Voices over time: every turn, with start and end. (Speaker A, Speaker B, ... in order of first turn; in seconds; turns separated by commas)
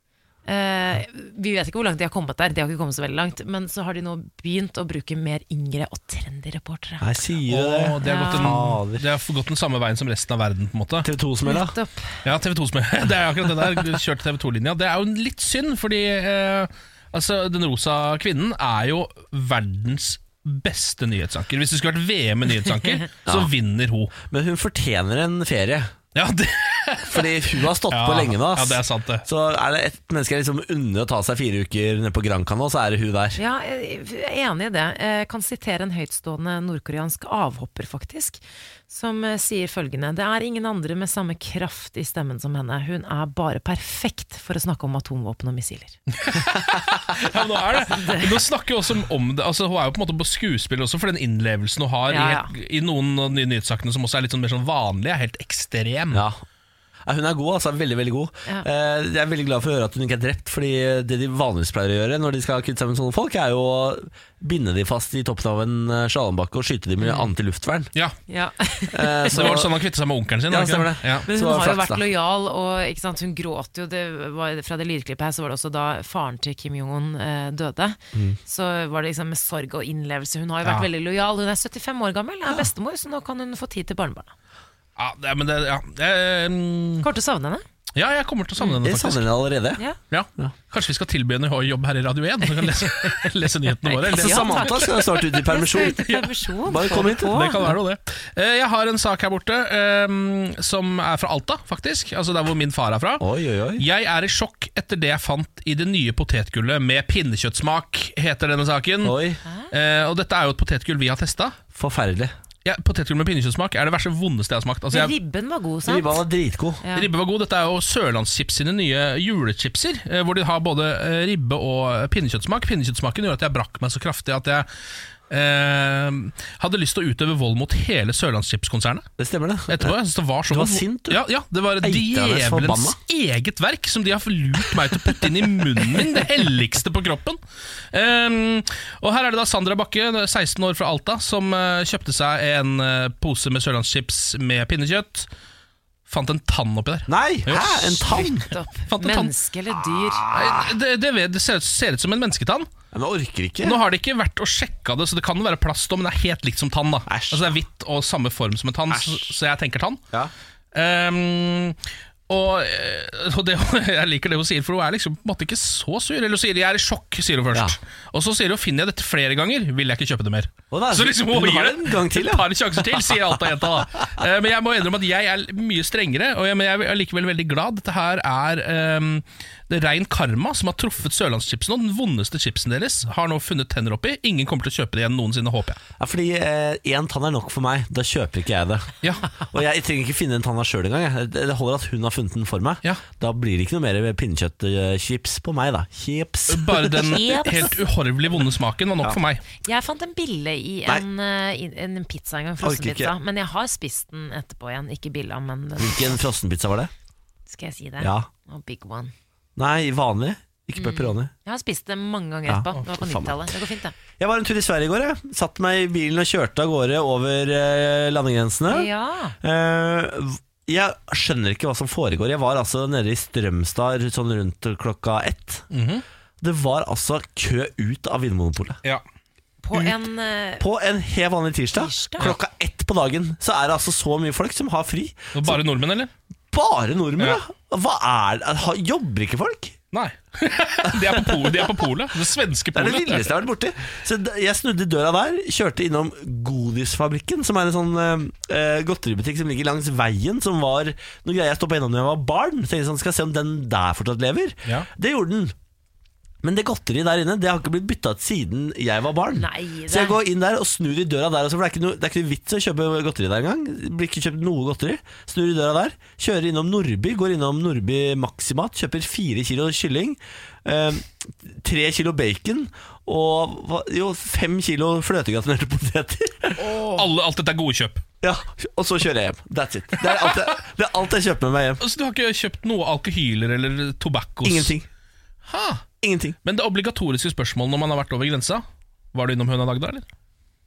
Speaker A: 0.5-7.1, Speaker B: 7.0-9.1, Speaker C: 7.5-11.1, Speaker A: 8.0-8.6, Speaker B: 11.0-11.8, Speaker A: 11.5-12.2, Speaker C: 12.2-24.1, Speaker B: 23.3-23.5, Speaker B: 24.3-25.9, Speaker C: 26.1-29.2, Speaker B: 27.1-33.4, Speaker A: 33.4-46.0, Speaker C: 46.1-56.2, Speaker A: 47.9-48.4, Speaker A: 52.1-52.5, Speaker B: 56.1-56.4, Speaker B: 57.0-67.9, Speaker A: 68.3-69.6, Speaker B: 68.9-69.8, Speaker C: 69.3-71.3, Speaker B: 70.5-72.0, Speaker A: 71.3-84.3, Speaker C: 85.0-87.1, Speaker A: 87.0-87.7, Speaker C: 88.0-89.3, Speaker B: 88.8-89.8, Speaker C: 90.1-103.2, Speaker A: 93.8-97.7, Speaker B: 94.1-96.1, Speaker B: 96.7-97.6, Speaker B: 103.2-103.9, Speaker C: 103.8-109.2, Speaker B: 109.0-109.4, Speaker A: 109.5-109.7, Speaker C: 109.7-111.6, Speaker B: 111.7-112.3, Speaker C: 112.7-115.2, Speaker A: 114.9-116.2, Speaker B: 115.9-116.8, Speaker A: 116.8-117.1, Speaker C: 117.0-124.7, Speaker C: 125.3-129.1, Speaker B: 129.2-129.9, Speaker C: 129.7-137.4, Speaker B: 130.5-131.2, Speaker B: 131.8-133.0, Speaker C: 137.9-145.3, Speaker C: 146.1-148.2, Speaker B: 147.1-148.5, Speaker A: 148.1-150.3, Speaker C: 148.9-149.3, Speaker B: 150.1-150.7, Speaker C: 150.3-152.7, Speaker B: 152.9-153.8, Speaker C: 153.6-160.0, Speaker B: 157.1-157.6, Speaker B: 158.9-159.3, Speaker C: 160.7-161.8, Speaker C: 162.3-185.8, Speaker B: 170.7-173.4, Speaker B: 186.0-197.2, Speaker C: 189.0-189.3, Speaker C: 196.5-199.4, Speaker A: 197.0-197.8, Speaker A: 199.6-206.2, Speaker B: 202.6-203.1, Speaker B: 205.8-206.9, Speaker A: 207.5-209.1, Speaker B: 208.0-208.3, Speaker B: 209.6-211.3, Speaker A: 210.8-214.0, Speaker B: 212.5-213.5, Speaker B: 214.2-218.9, Speaker A: 218.7-219.4, Speaker B: 219.4-225.7, Speaker C: 225.7-226.0, Speaker B: 226.4-228.8, Speaker A: 229.6-230.7, Speaker B: 230.6-235.6, Speaker A: 231.7-232.3, Speaker C: 235.3-236.1, Speaker B: 236.5-239.8, Speaker C: 239.9-243.3, Speaker B: 240.9-241.8, Speaker B: 242.7-255.5, Speaker B: 256.4-277.0, Speaker A: 259.3-260.2, Speaker C: 276.6-278.0, Speaker B: 278.2-281.8, Speaker C: 280.0-280.4, Speaker C: 281.8-284.7, Speaker B: 284.4-284.9, Speaker C: 285.5-285.8, Speaker B: 286.0-286.4, Speaker C: 286.4-290.1